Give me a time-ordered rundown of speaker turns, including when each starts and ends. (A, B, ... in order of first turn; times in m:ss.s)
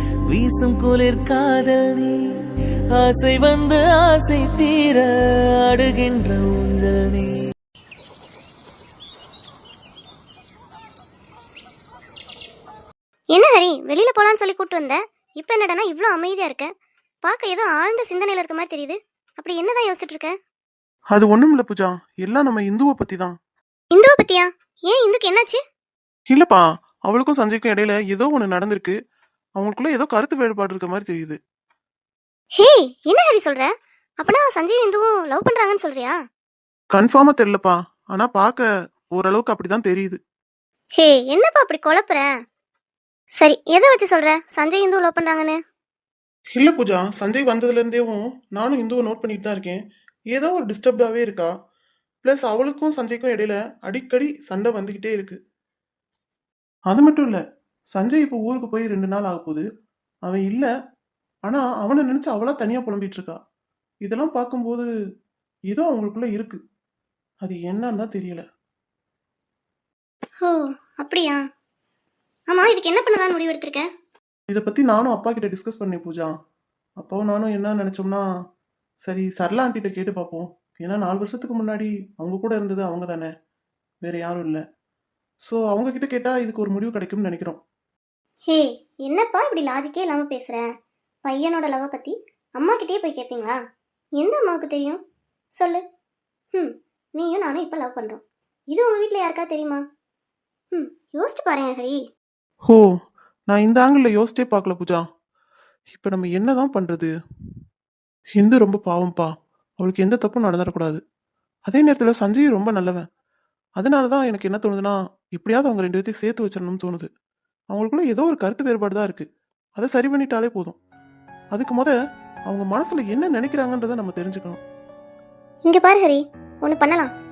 0:00.3-0:02.2 A
0:02.9-0:05.1 A
0:05.6-0:07.3 A
0:13.3-0:16.7 B
0:17.2-0:20.4 B
0:21.1-0:23.3 C
0:23.9-0:25.6 B
0:26.3-0:29.0 C
0:29.6-0:31.4 C
0:32.6-0:33.7 B
0:34.2-0:36.2 B
0:36.9-0:40.2 C
0:41.0-0:42.3 B
0:43.4-0:45.6 B
0:46.6-0:49.8 C
0:50.3-0:51.5 C
0:52.2-0:55.4 C
0:56.9-0:57.4 C
0:57.9-0:59.6 C
1:00.2-1:00.7 C
1:01.5-1:03.4 C
1:04.0-1:04.9 C
1:05.7-1:06.6 C
1:07.4-1:08.4 C
1:10.4-1:11.4 B
1:12.5-1:13.9 B
1:14.5-1:16.3 C
1:17.0-1:18.2 C
1:19.0-1:23.3 C
1:24.0-1:24.6 C
1:25.4-1:27.6 C
1:28.5-1:30.7 B
1:31.2-1:33.6 B
1:34.2-1:35.0 B
1:35.6-1:35.8 B
1:36.5-1:39.8 B
1:40.7-1:42.0 B
1:43.5-1:45.0 C
1:45.9-1:47.1 C
1:48.4-1:51.0 C
1:51.7-1:53.0 C
1:53.8-1:57.1 C
1:57.7-1:59.3 C
1:59.8-2:00.8 C
2:01.5-2:02.0 C
2:02.5-2:04.6 C
2:05.6-2:07.1 B